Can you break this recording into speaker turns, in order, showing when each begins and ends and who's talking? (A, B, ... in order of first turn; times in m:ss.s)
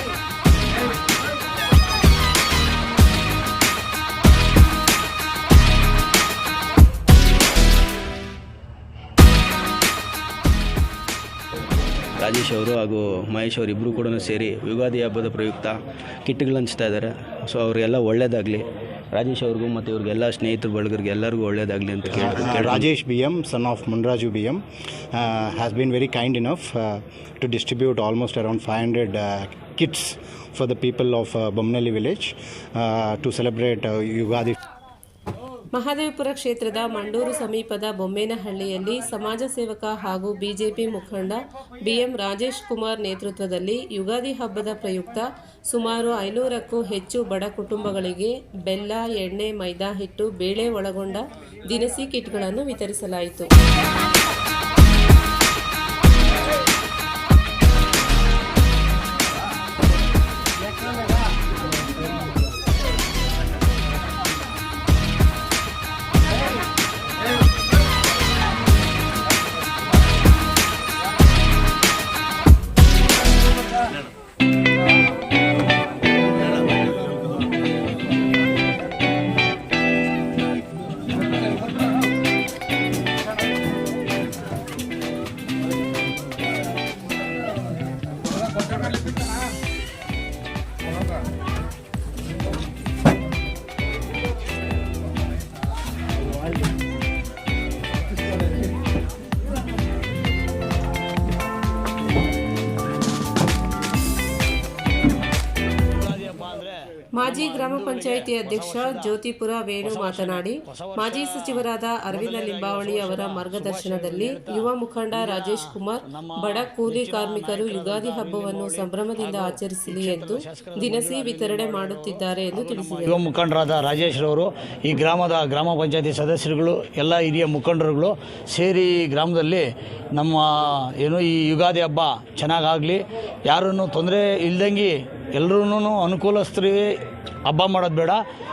0:12.2-0:22.9 A
0:22.1-0:34.5 B
0:35.7-0:53.5 C
1:45.9-1:49.2 D
1:47.1-2:03.2 C
1:49.8-1:55.6 D
1:56.1-2:16.9 D
2:17.4-2:18.2 D